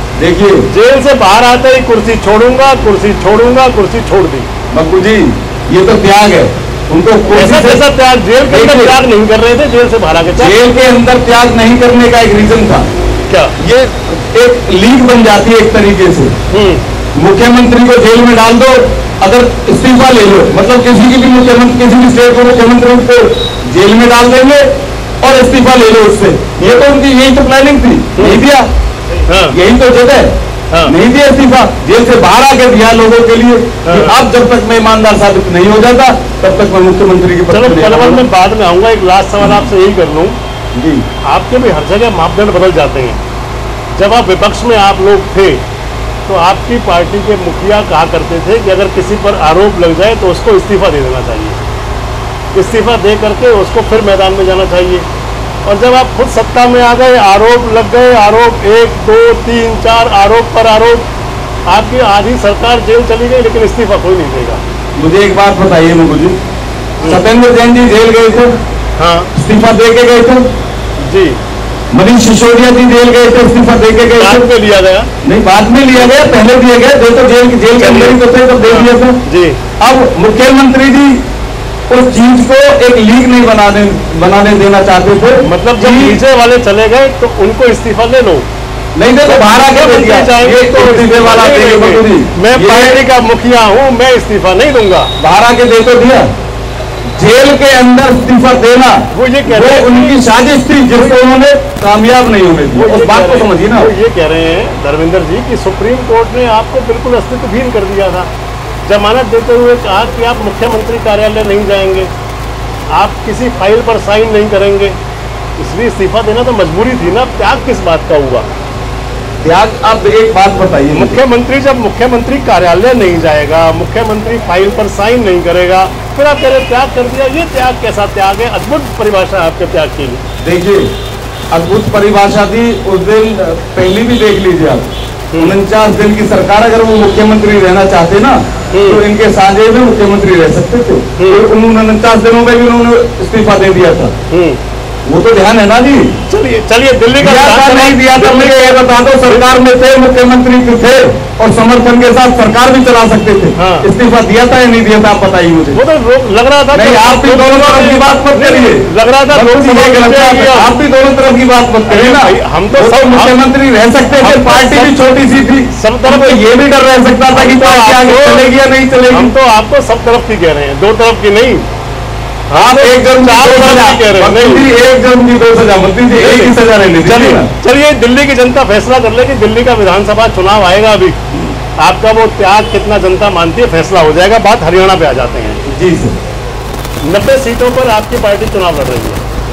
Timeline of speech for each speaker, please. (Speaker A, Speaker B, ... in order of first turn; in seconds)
Speaker A: 0.2-0.7, 4.7-7.8, 8.5-9.0, 10.3-12.9, 13.6-16.3, 17.1-24.7, 25.2-28.7, 29.5-38.2, 40.7-41.0, 65.0-66.4, 67.0-68.5, 69.3-70.5, 71.9-74.5, 75.2-79.2, 79.8-81.2, 81.9-86.2, 89.0-93.0, 95.2-96.3, 97.1-103.9, 119.4-121.2, 130.4-130.9, 131.5-144.1, 145.1-146.1, 147.2-155.8, 156.7-169.3, 172.5-177.5, 185.7-186.1
Speaker B: 0.7-4.5, 7.3-10.6, 13.3-13.5, 16.5-16.8, 28.2-28.4, 29.3-29.6, 33.9-34.2, 37.5-40.4, 41.3-43.2, 44.0-45.6, 46.3-51.6, 52.5-55.0, 55.6-61.0, 61.7-64.6, 69.0-69.3, 71.0-71.4, 74.2-75.1, 77.8-79.6, 85.4-88.4, 89.2-95.1, 99.1-100.2, 102.7-108.3, 108.8-112.1, 112.9-115.0, 115.6-118.5, 120.9-130.2, 138.7-139.0, 141.2-141.4, 144.3-144.6, 146.3-149.5, 153.6-153.9, 155.7-160.7, 161.9-163.4, 164.2-165.0, 165.7-166.5, 167.3-168.5, 169.1-171.7, 172.5-174.7, 176.1-181.2, 181.8-185.6, 187.0-189.2